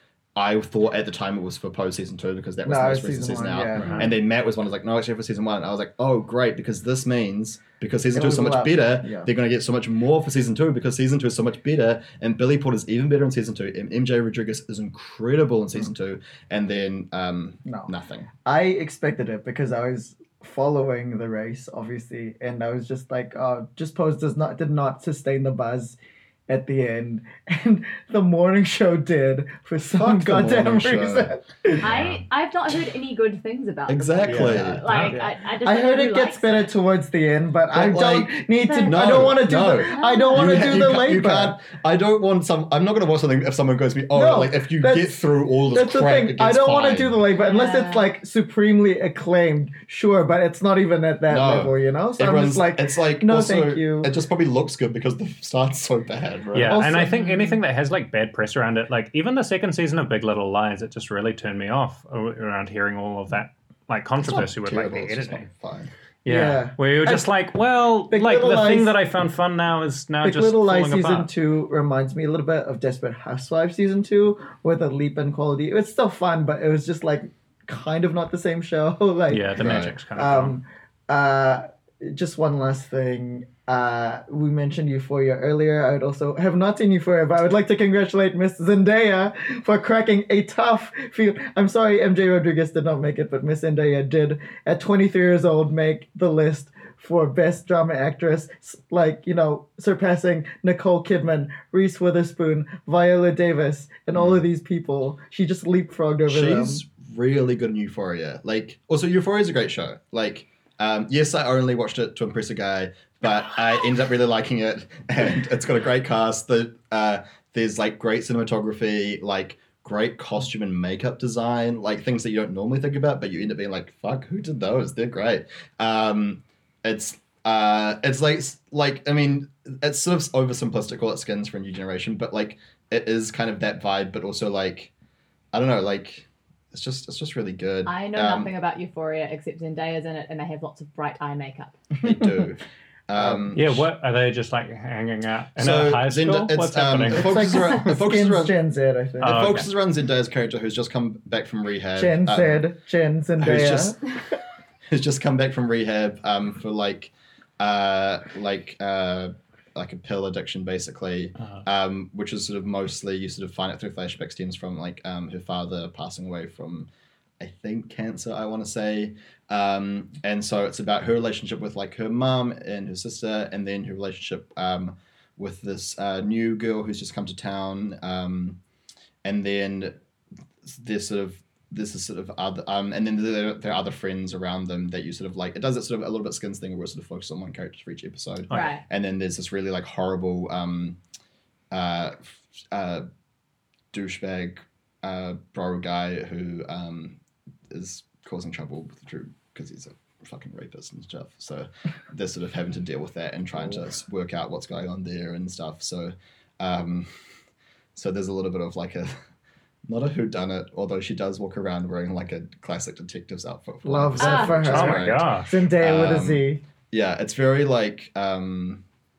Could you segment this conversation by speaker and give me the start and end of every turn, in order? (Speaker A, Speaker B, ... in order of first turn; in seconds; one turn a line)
Speaker A: 0.3-18.3
Speaker B: 2.6-4.0
Speaker C: 3.8-4.1
Speaker B: 8.1-9.3
Speaker B: 17.6-17.9
Speaker B: 18.4-31.9
Speaker A: 30.0-31.3
Speaker D: 31.8-36.7
Speaker C: 31.9-32.2
Speaker A: 33.9-34.9
Speaker B: 34.2-41.6
Speaker C: 34.8-35.1
Speaker A: 37.7-47.2
Speaker D: 38.6-40.8
Speaker B: 44.1-54.1
Speaker D: 47.3-48.1
Speaker A: 51.3-56.8
Speaker C: 56.5-65.5
Speaker B: 56.6-57.2
Speaker D: 57.1-57.5
Speaker A: 64.2-65.9
Speaker C: 66.2-71.3
Speaker B: 66.2-67.2
Speaker B: 68.1-68.9
Speaker B: 70.2-106.8
Speaker C: 79.3-80.6
Speaker A: 79.6-79.9
Speaker A: 104.1-104.4
Speaker A: 106.3-134.9
Speaker A: 135.5-138.5
Speaker D: 137.8-141.8
Speaker B: 142.0-142.3
Speaker A: 142.0-143.9
Speaker B: 143.2-143.5
Speaker C: 143.5-147.9
Speaker A: 145.6-148.5
Speaker B: 147.1-149.6
Speaker C: 149.2-149.7
Speaker A: 149.2-152.6
Speaker B: 151.9-154.0
Speaker A: 153.4-154.1
Speaker A: 154.9-166.9
Speaker A: 167.4-178.6
Speaker A: 179.2-180.0
Speaker A: 180.7-191.0
Speaker D: 188.5-188.8
Speaker A: 191.7-193.1
Speaker A: 193.9-197.2
Speaker A: 197.7-207.1
Speaker A: 207.9-209.2
Speaker A: 209.9-218.8
Speaker B: 213.8-216.6
Speaker D: 214.2-214.8
Speaker C: 214.6-215.6